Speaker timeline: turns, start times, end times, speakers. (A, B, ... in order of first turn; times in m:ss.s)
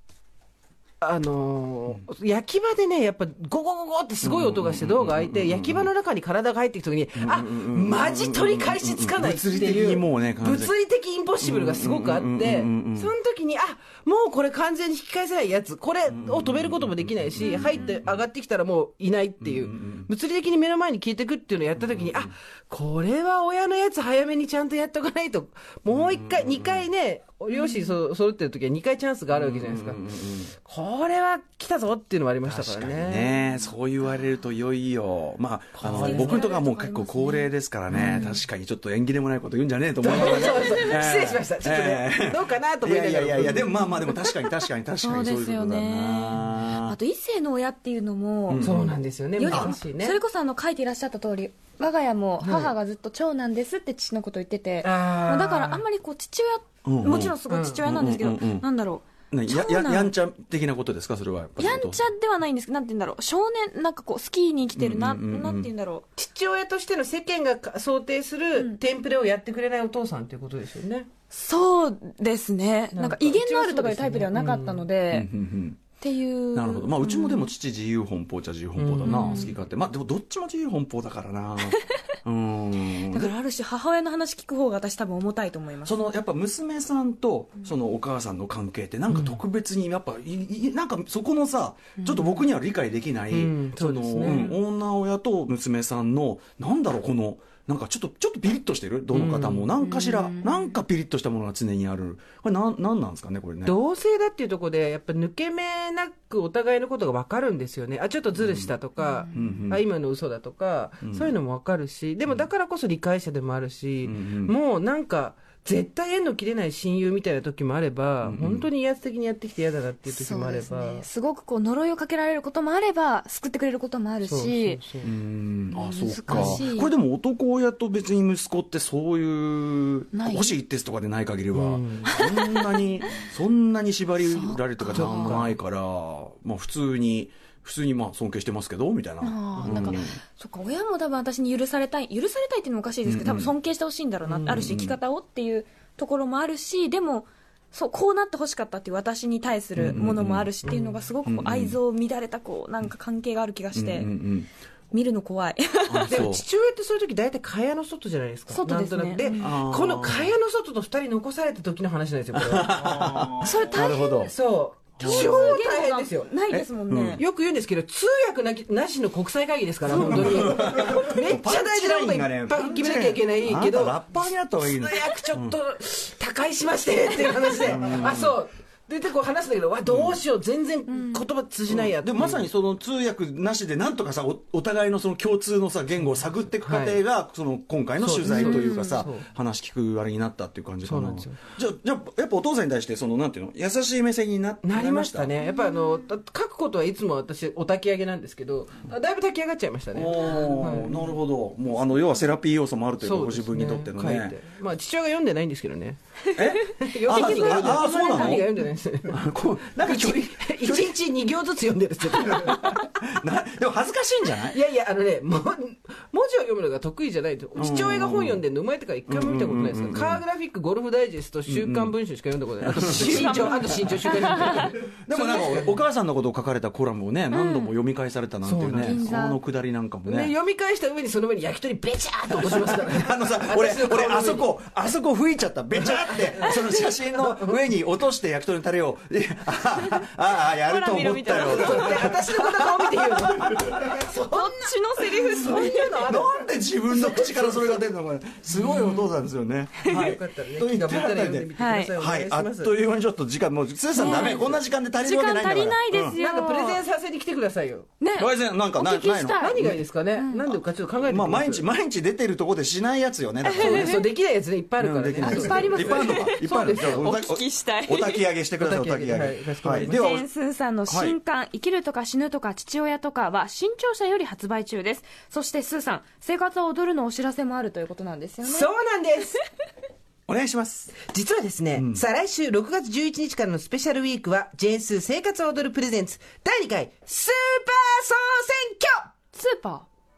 0:01.0-0:30.0 A
0:04.2-0:05.9 B
0:07.2-0:10.7 B
0:11.4-0:13.1 B
0:16.1-0:18.2 B
0:17.4-0:18.0 C
0:19.4-0:20.1 B
0:21.8-0:22.3 B
0:25.9-0:26.9 B
0:27.5-0:28.0 C
0:29.3-0:30.5 B
0:30.5-0:33.4 A
0:32.4-0:47.0 B
0:35.8-0:36.5 A
0:35.9-0:38.4 C
0:40.0-0:43.7 A
0:43.4-0:44.1 C
0:45.0-0:48.7 C
0:48.5-0:49.8 B
0:48.6-0:50.2 A
0:49.4-1:00.2 C
0:52.4-0:52.7 A
0:54.8-0:55.8 A
0:56.8-0:58.7 B
0:57.5-0:57.8 A
0:59.3-1:02.0 B
1:01.6-1:06.0 C
1:04.8-1:05.7 B
1:06.2-1:11.1 A
1:11.3-1:15.3 C
1:12.9-1:14.8 A
1:15.1-1:15.8 B
1:16.0-1:17.5 C
1:16.6-1:23.3 B
1:18.8-1:19.5 A
1:19.0-1:19.6 C
1:22.9-1:26.0 C
1:25.8-1:43.8 B
1:29.1-1:29.4 A
1:32.0-1:32.5 C
1:33.3-1:34.6 A
1:39.1-1:39.7 A
1:39.8-1:40.8 C
1:43.6-2:01.0 A
1:48.4-1:48.7 B
1:49.0-1:49.6 C
1:49.3-1:49.8 B
1:51.0-1:51.3 B
1:54.0-1:54.6 B
1:58.2-1:58.7 B
2:00.1-2:04.8 C
2:04.2-2:05.1 A
2:05.0-2:20.2 B
2:05.7-2:06.9 C
2:06.3-2:06.7 A
2:10.1-2:10.6 C
2:11.5-2:12.2 A
2:12.1-2:13.3 C
2:14.2-2:15.4 C
2:15.0-2:15.6 A
2:19.2-2:34.1 C
2:19.6-2:20.0 A
2:23.0-2:23.5 B
2:24.2-2:24.7 A
2:24.4-2:25.0 B
2:29.8-2:30.5 B
2:30.6-2:31.0 A
2:31.2-2:31.8 B
2:33.7-2:34.5 B
2:34.9-2:36.2 C
2:35.9-2:36.4 B
2:36.0-2:43.3 A
2:38.5-2:39.5 C
2:39.3-2:40.4 B
2:42.3-2:44.3 B
2:43.4-2:44.3 C
2:44.3-2:46.3 A
2:45.0-2:45.6 B
2:45.0-2:47.2 C
2:46.5-2:47.2 B
2:47.2-3:02.5 A
2:49.9-2:55.6 B
2:50.5-2:50.9 C
2:57.6-2:58.4 B
2:59.9-3:00.2 B
3:00.9-3:01.2 C
3:01.7-3:15.3 B
3:06.0-3:07.0 A
3:08.0-3:09.3 A
3:08.3-3:09.1 C
3:10.8-3:11.4 A
3:14.6-3:21.0 A
3:15.4-3:16.1 C
3:19.9-3:24.4 B
3:23.0-3:26.0 A
3:26.3-3:28.5 C
3:26.4-3:28.5 B
3:26.8-3:29.2 A
3:29.1-3:31.0 B
3:29.8-3:32.8 A
3:32.1-3:34.6 B
3:34.5-3:45.7 A
3:37.6-3:38.4 B
3:39.1-3:40.2 B
3:41.5-3:42.0 B
3:42.6-3:50.3 B
3:42.7-3:45.7 C
3:47.3-3:47.8 C
3:48.4-3:49.1 A
3:48.7-3:49.4 C
3:50.0-3:54.5 A
3:52.3-4:04.0 B
3:55.8-3:57.6 A
4:00.6-4:02.2 C
4:01.3-4:07.8 A
4:04.3-4:06.0 C
4:06.0-4:16.2 B
4:08.5-4:09.1 C
4:09.8-4:10.1 C
4:09.9-4:12.7 A
4:11.6-4:12.0 C
4:14.0-4:16.9 C
4:14.0-4:14.6 A
4:16.1-4:17.9 A
4:18.0-4:19.6 C
4:18.2-4:19.8 B
4:19.3-4:21.7 A
4:20.2-4:20.6 C
4:21.0-4:24.0 B
4:23.4-4:24.1 C
4:23.5-4:27.2 A
4:24.8-4:30.2 B
4:25.2-4:28.2 C
4:28.6-4:30.1 A
4:29.8-4:38.7 C
4:30.9-4:31.2 B
4:38.4-4:39.4 A
4:40.3-4:41.0 B
4:41.0-4:49.1 A
4:41.8-4:42.0 B
4:49.3-4:49.9 C